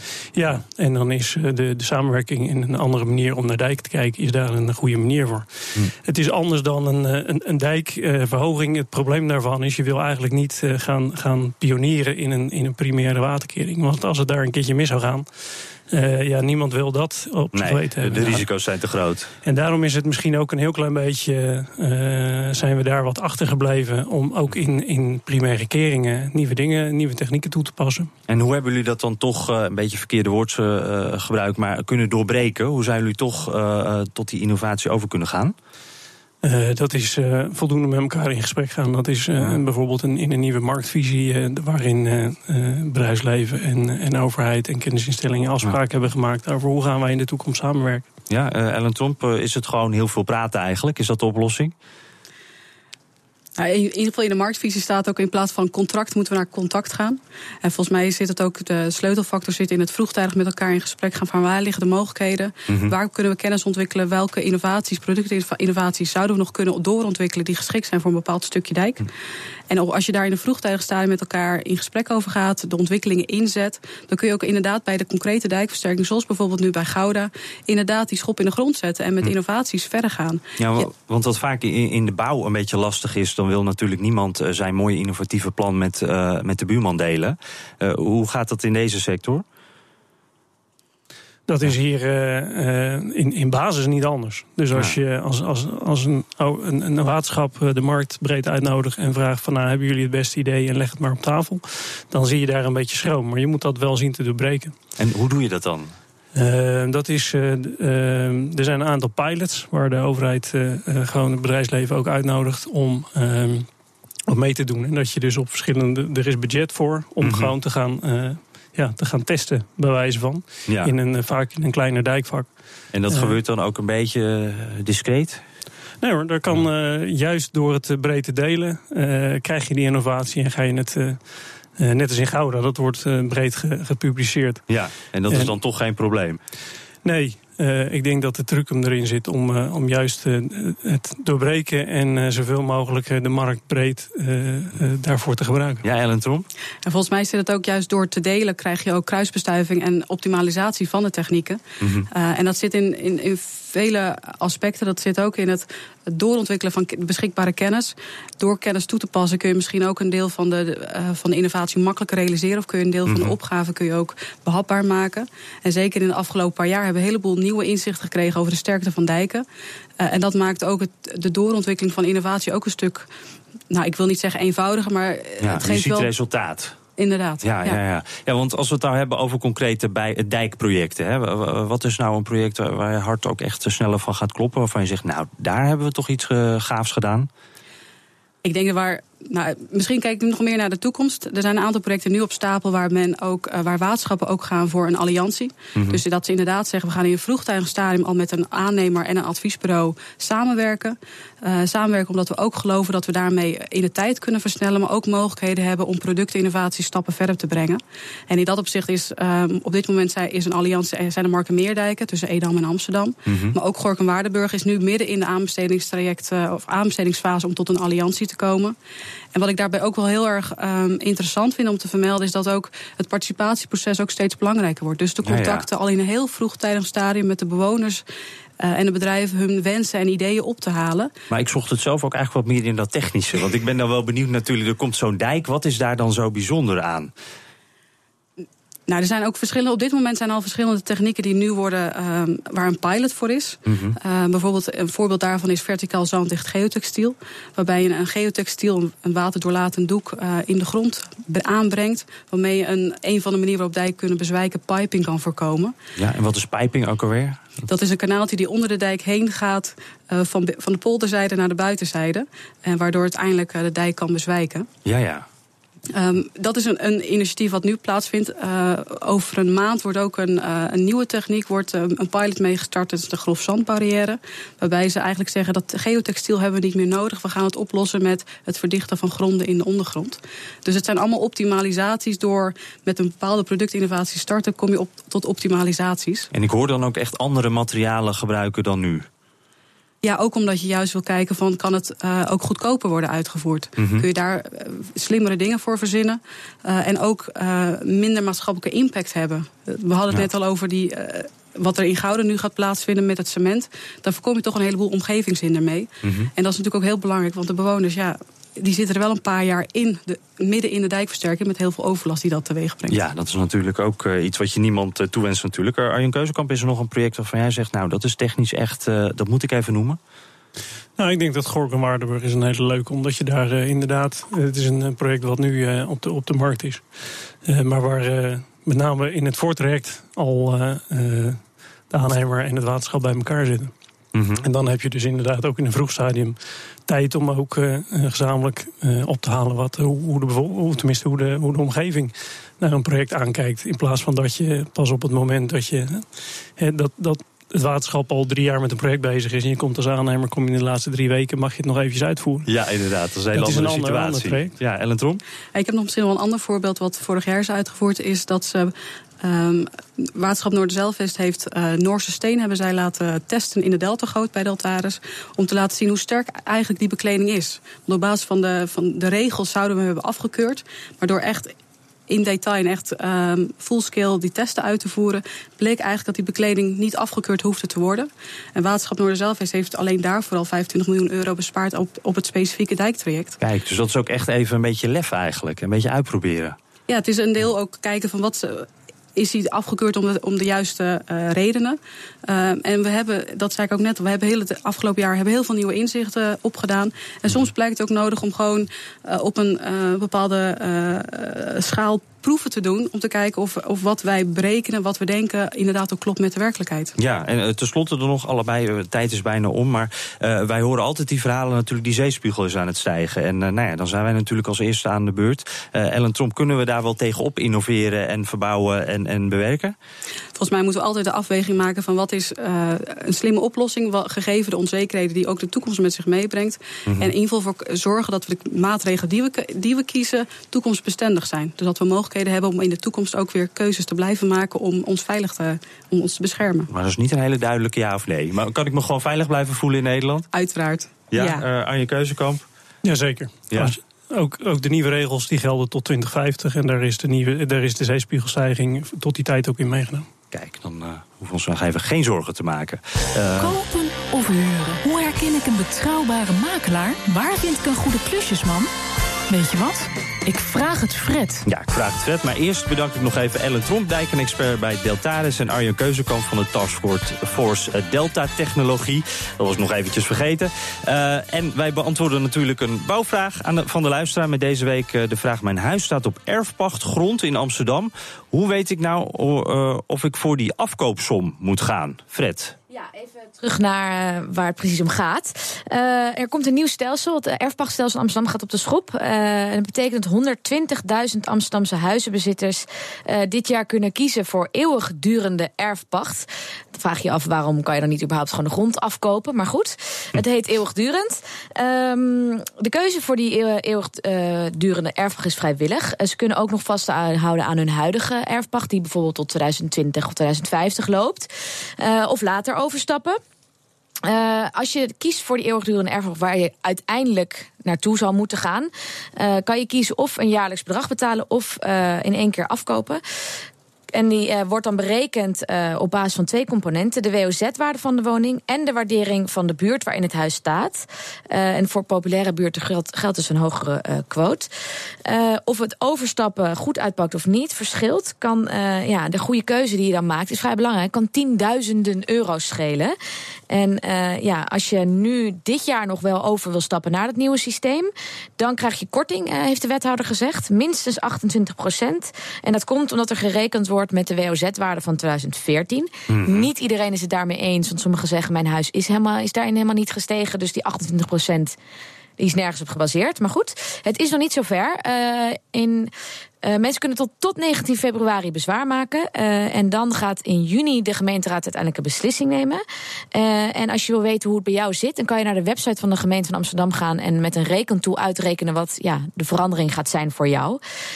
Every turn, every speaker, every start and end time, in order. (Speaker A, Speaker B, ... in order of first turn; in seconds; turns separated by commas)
Speaker A: 0.3-18.4, Speaker B: 17.5-19.3, Speaker A: 19.4-28.1, Speaker B: 28.3-35.5, Speaker A: 36.4-48.0, Speaker B: 48.3-51.7, Speaker C: 53.6-69.1, Speaker B: 62.7-62.9, Speaker C: 69.7-80.9, Speaker B: 80.6-89.4, Speaker A: 91.5-104.8, Speaker B: 105.0-106.0, Speaker A: 106.3-113.7, Speaker A: 114.3-122.5, Speaker B: 117.2-117.5, Speaker B: 120.7-120.9, Speaker B: 122.9-125.4, Speaker A: 123.1-123.4, Speaker A: 126.0-131.2, Speaker A: 131.8-134.7, Speaker B: 134.7-136.4, Speaker A: 137.0-145.8, Speaker B: 145.8-146.5, Speaker C: 146.8-169.5, Speaker B: 151.8-152.1, Speaker B: 163.1-163.3, Speaker C: 170.0-173.1, Speaker C: 173.7-176.1, Speaker B: 175.4-176.8, Speaker C: 177.0-177.8, Speaker B: 177.4-187.3, Speaker C: 188.4-218.8, Speaker B: 195.8-196.0, Speaker B: 213.3-213.6, Speaker C: 219.3-228.0, Speaker B: 225.2-225.7, Speaker C: 228.6-231.1, Speaker B: 231.3-237.1, Speaker C: 238.9-255.7, Speaker B: 243.7-244.0, Speaker B: 256.0-257.6, Speaker C: 257.7-264.7, Speaker B: 264.9-265.3, Speaker C: 265.9-286.3, Speaker B: 286.3-289.1, Speaker C: 290.0-313.0, Speaker B: 293.8-294.1, Speaker B: 306.0-306.3, Speaker B: 312.9-320.0, Speaker A: 321.0-326.8, Speaker A: 327.4-333.7, Speaker B: 334.1-334.4, Speaker A: 334.4-346.1, Speaker A: 346.6-352.5, Speaker B: 352.5-355.2, Speaker A: 353.3-354.5, Speaker C: 355.6-371.5, Speaker C: 372.1-383.4, Speaker B: 383.4-386.6, Speaker C: 386.9-406.9, Speaker B: 407.0-419.8, Speaker C: 420.4-436.7, Speaker B: 426.9-427.1, Speaker B: 436.7-440.3, Speaker C: 440.3-441.4, Speaker B: 441.1-442.4, Speaker A: 442.8-450.1, Speaker B: 450.3-453.6, Speaker D: 453.4-458.7, Speaker D: 459.3-461.5, Speaker B: 461.5-482.6, Speaker E: 482.7-513.2, Speaker E: 514.0-523.0, Speaker E: 523.9-534.5, Speaker E: 535.1-543.0, Speaker E: 543.5-561.6, Speaker B: 556.1-556.5, Speaker E: 562.2-565.9, Speaker E: 566.4-572.6, Speaker E: 573.1-580.6